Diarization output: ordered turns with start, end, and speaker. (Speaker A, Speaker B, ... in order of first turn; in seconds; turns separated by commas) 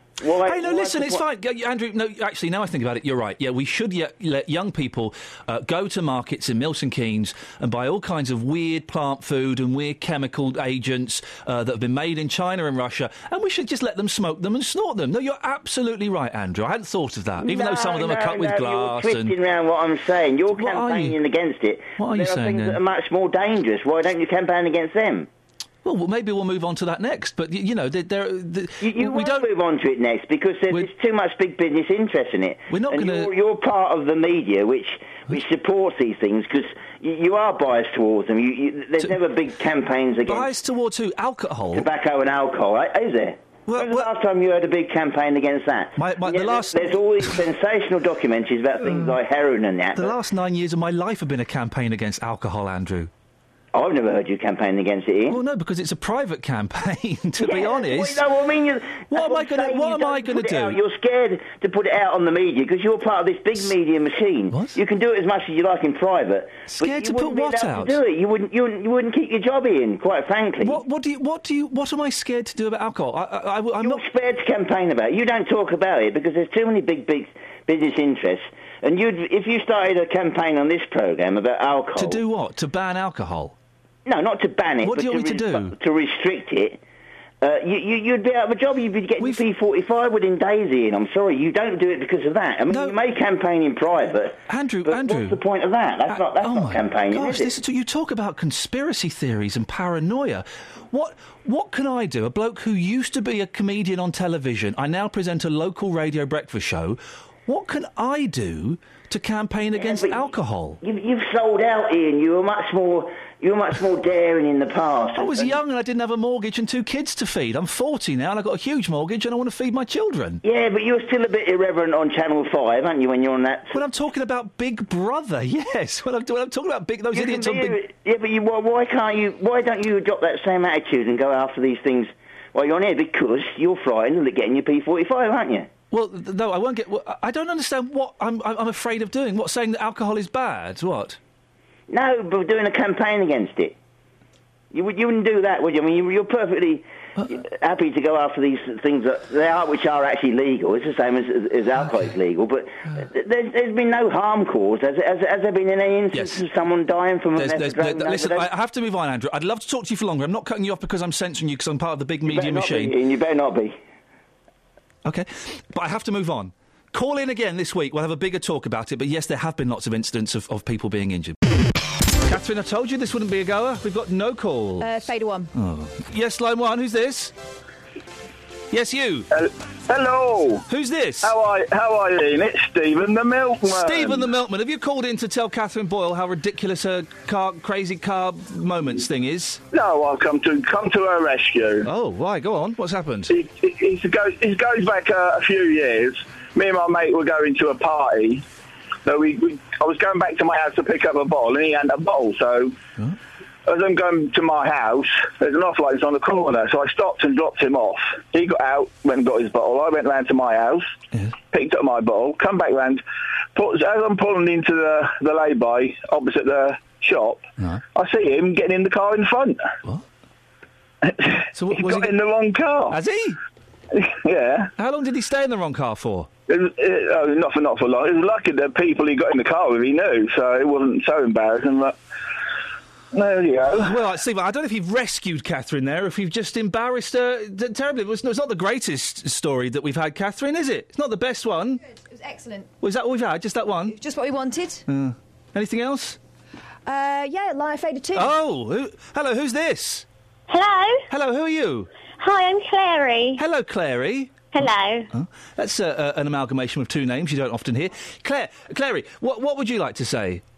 Speaker A: 0.2-1.2, Speaker B: 0.4-19.4, Speaker A: 17.4-25.3, Speaker B: 20.6-21.2, Speaker B: 22.0-22.8, Speaker B: 25.8-29.5, Speaker A: 28.8-40.5, Speaker B: 32.7-33.3, Speaker B: 40.3-41.9, Speaker A: 41.7-50.2, Speaker B: 43.7-44.1, Speaker B: 46.0-47.4, Speaker B: 48.9-49.1, Speaker B: 50.0-53.1, Speaker A: 53.7-55.4, Speaker B: 55.3-58.2, Speaker A: 57.4-70.8, Speaker B: 59.1-60.8, Speaker B: 64.5-64.8, Speaker B: 66.7-68.0, Speaker B: 70.6-74.0, Speaker A: 73.8-82.2, Speaker B: 82.0-83.6, Speaker A: 84.1-86.8, Speaker B: 84.8-85.8, Speaker A: 87.4-97.5, Speaker B: 92.7-93.0, Speaker B: 94.5-95.4, Speaker B: 96.1-110.8, Speaker A: 109.8-110.3, Speaker A: 110.8-115.6, Speaker B: 115.2-120.4, Speaker A: 120.4-123.8, Speaker B: 123.7-127.8, Speaker A: 127.1-135.7, Speaker B: 135.9-141.2, Speaker A: 141.9-143.8, Speaker A: 144.7-158.5, Speaker B: 156.1-156.4, Speaker B: 157.4-163.0, Speaker A: 162.3-163.8, Speaker B: 165.1-171.4, Speaker B: 172.2-175.0, Speaker C: 174.8-175.5, Speaker B: 175.5-177.3, Speaker B: 178.7-179.3, Speaker D: 179.3-180.6, Speaker B: 180.7-181.3, Speaker D: 181.2-184.3, Speaker B: 183.6-189.6, Speaker D: 189.7-191.9, Speaker B: 191.8-193.3, Speaker D: 193.3-198.5, Speaker D: 199.1-202.8, Speaker D: 203.7-210.9, Speaker D: 211.5-213.0, Speaker D: 213.6-219.7, Speaker D: 221.1-223.0, Speaker B: 221.5-222.1, Speaker B: 222.9-223.4, Speaker D: 223.9-224.7, Speaker B: 224.8-226.3, Speaker D: 226.5-232.0, Speaker D: 233.1-234.0, Speaker B: 233.8-241.8, Speaker C: 241.9-242.7, Speaker B: 242.8-244.0, Speaker C: 243.9-244.8, Speaker B: 244.9-246.2, Speaker C: 246.9-248.3, Speaker B: 248.1-250.1, Speaker E: 250.5-251.1, Speaker B: 251.1-251.9, Speaker E: 252.2-253.4, Speaker B: 253.4-260.4, Speaker E: 254.5-255.1